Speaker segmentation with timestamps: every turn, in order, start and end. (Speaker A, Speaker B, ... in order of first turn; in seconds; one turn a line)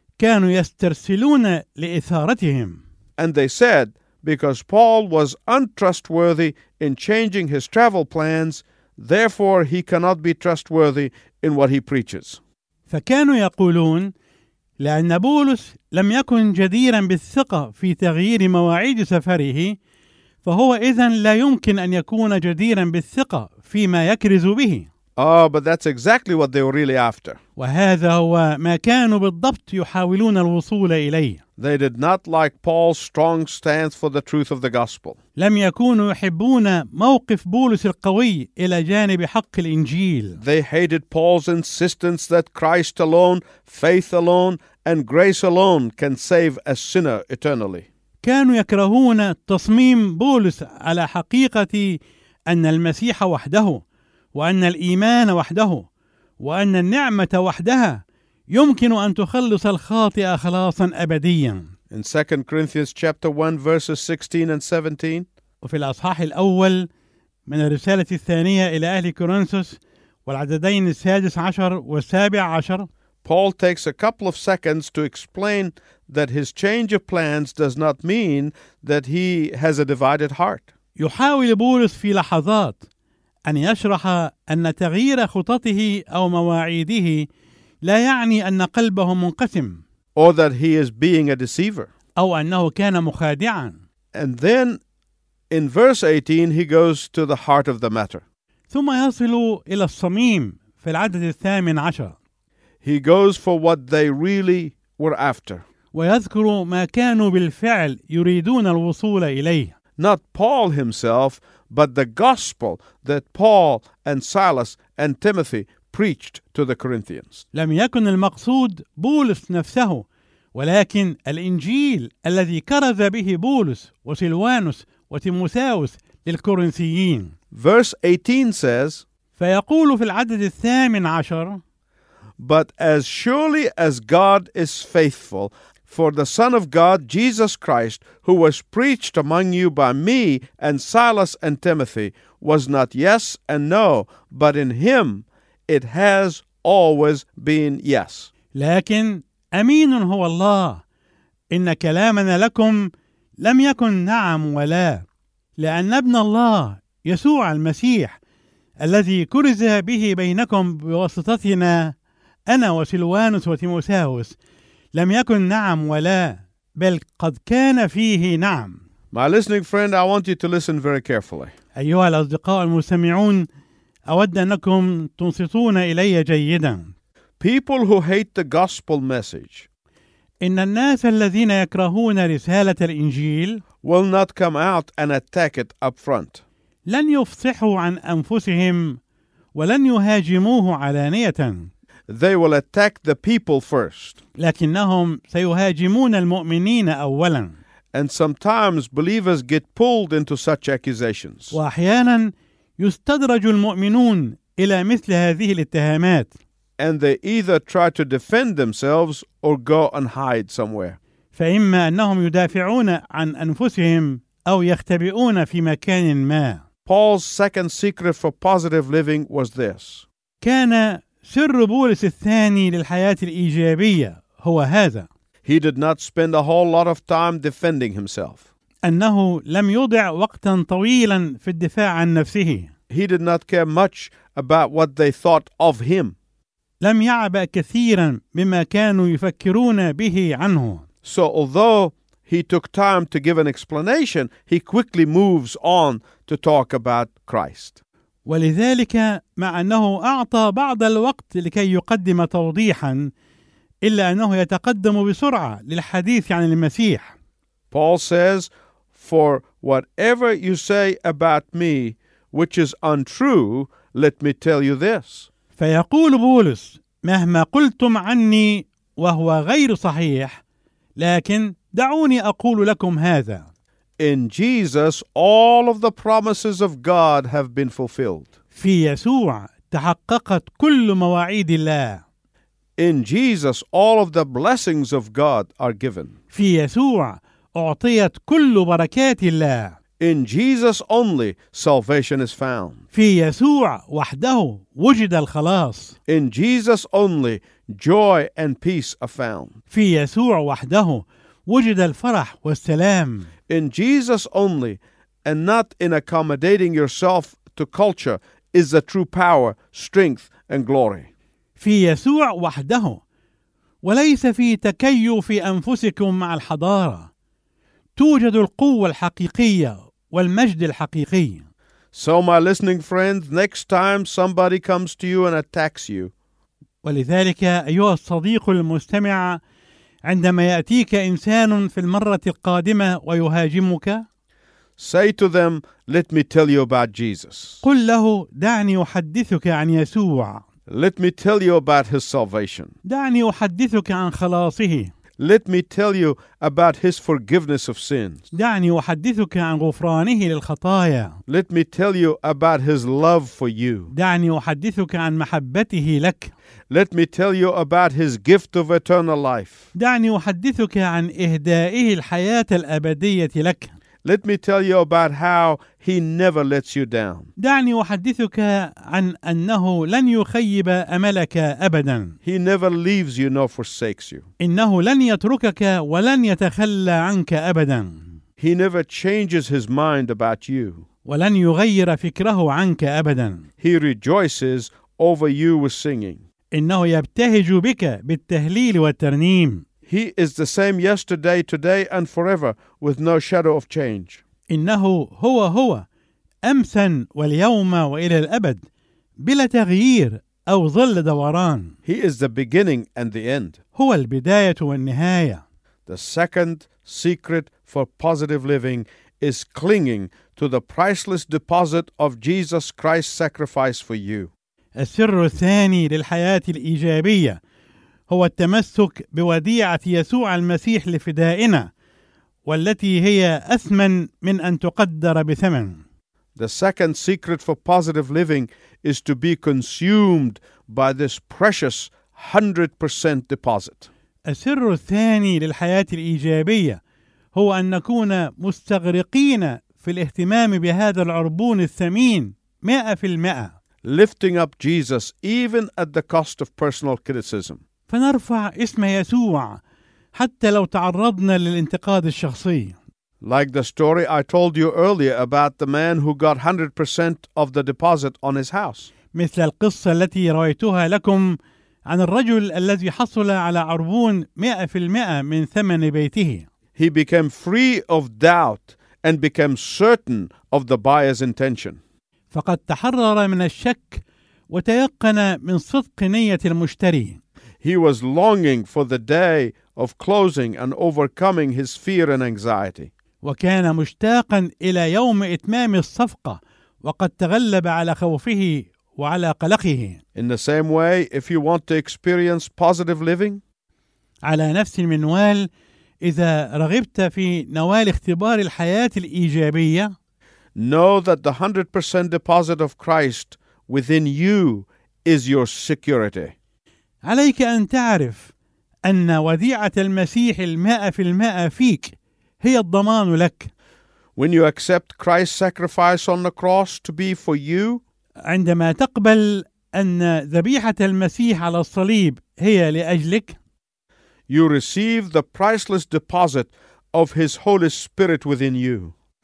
Speaker A: 0.2-2.8
Speaker B: 3.2-12.4
Speaker A: 12.9-14.1
Speaker A: 14.8-19.8
Speaker A: 20.4-24.9
Speaker B: 25.2-27.4
Speaker A: 27.6-31.4
Speaker B: 31.6-35.2
Speaker A: 35.4-40.4
Speaker B: 40.4-47.9
Speaker A: 48.2-53.8
Speaker A: 54.3-55.9
Speaker A: 56.4-61.7
Speaker B: 61.9-65.3
Speaker A: 65.6-66.9
Speaker A: 67.5-72.9
Speaker B: 73.2-80.7
Speaker A: 81.0-82.8
Speaker A: 83.5-87.3
Speaker A: 87.8-89.8
Speaker B: 90.2-91.9
Speaker A: 92.2-93.8
Speaker B: 94.1-94.8
Speaker B: 95.5-98.2
Speaker A: 98.7-102.2
Speaker B: 102.8-105.6
Speaker A: 105.9-109.7
Speaker B: 110.0-117.5
Speaker A: 117.5-127.3
Speaker B: 127.5-129.1
Speaker A: 129.4-131.6
Speaker B: 132.4-148.3
Speaker A: 148.5-150.8
Speaker A: 151.5-155.1
Speaker A: 155.6-158.2
Speaker A: 158.8-161.9
Speaker A: 162.5-164.4
Speaker A: 164.9-168.8
Speaker B: 169.1-171.5
Speaker A: 171.8-173.5
Speaker A: 174.1-176.9
Speaker B: 177.4-179.7
Speaker A: 180.4-183.6
Speaker B: 183.8-186.4
Speaker A: 186.9-189.0
Speaker A: 189.5-191.7
Speaker B: 192.1-194.2
Speaker A: 194.4-197.6
Speaker B: 197.9-201.6
Speaker A: 201.5-206.3
Speaker B: 206.8-211.0
Speaker A: 211.3-216.6
Speaker B: 216.9-220.1
Speaker A: 220.4-225.1
Speaker B: 225.4-228.4
Speaker A: 228.8-232.7
Speaker B: 232.9-236.2
Speaker A: 236.8-240.8
Speaker B: 241.0-247.8
Speaker A: 248.3-253.1
Speaker A: 253.8-257.1
Speaker B: 257.7-265.3
Speaker A: 265.6-270.4
Speaker A: 271.0-273.5
Speaker B: 274.0-278.3
Speaker A: 278.6-282.0
Speaker B: 282.8-286.1
Speaker A: 286.3-289.8
Speaker B: 290.0-292.8
Speaker A: 292.9-296.0
Speaker B: 296.1-299.6
Speaker A: 299.7-303.3
Speaker B: 303.5-311.1
Speaker A: 311.6-313.0
Speaker A: 313.8-317.1
Speaker A: 318.0-321.4
Speaker B: 321.9-326.1
Speaker A: 326.8-329.4
Speaker A: 330.1-334.1
Speaker B: 334.8-337.6
Speaker A: 337.6-340.4
Speaker B: 340.7-342.7
Speaker A: 342.8-344.9
Speaker B: 345.2-348.2
Speaker A: 348.3-351.2
Speaker B: 351.3-353.9
Speaker A: 353.9-356.3
Speaker B: 356.7-359.6
Speaker A: 359.7-363.7
Speaker B: 364.0-367.3
Speaker A: 367.4-372.2
Speaker B: 372.2-374.3
Speaker A: 374.4-378.1
Speaker B: 378.4-380.9
Speaker A: 381.1-383.5
Speaker B: 383.6-386.2
Speaker A: 386.5-389.6
Speaker B: 389.9-394.2
Speaker A: 394.5-395.9
Speaker A: 396.4-398.6
Speaker A: 399.2-401.8
Speaker B: 401.9-403.6
Speaker A: 403.8-405.4
Speaker B: 405.9-414.3
Speaker A: 414.8-417.4
Speaker A: 418.1-421.7
Speaker A: 422.5-425.8
Speaker B: 426.4-433.9
Speaker A: 434.3-436.8
Speaker A: 437.3-443.5
Speaker B: 443.8-447.6
Speaker A: 447.9-449.6
Speaker A: 450.1-452.8
Speaker B: 453.2-458.9
Speaker A: 459.1-466.4
Speaker B: 466.8-471.8
Speaker A: 472.3-477.2
Speaker B: 477.6-482.9
Speaker A: 483.2-490.0
Speaker B: 490.1-493.4
Speaker A: 494.2-495.5
Speaker A: 496.0-499.9
Speaker B: 500.6-506.3
Speaker A: 507.0-508.3
Speaker A: 508.8-513.5
Speaker B: 514.2-517.8
Speaker A: 518.2-523.4
Speaker B: 524.3-528.9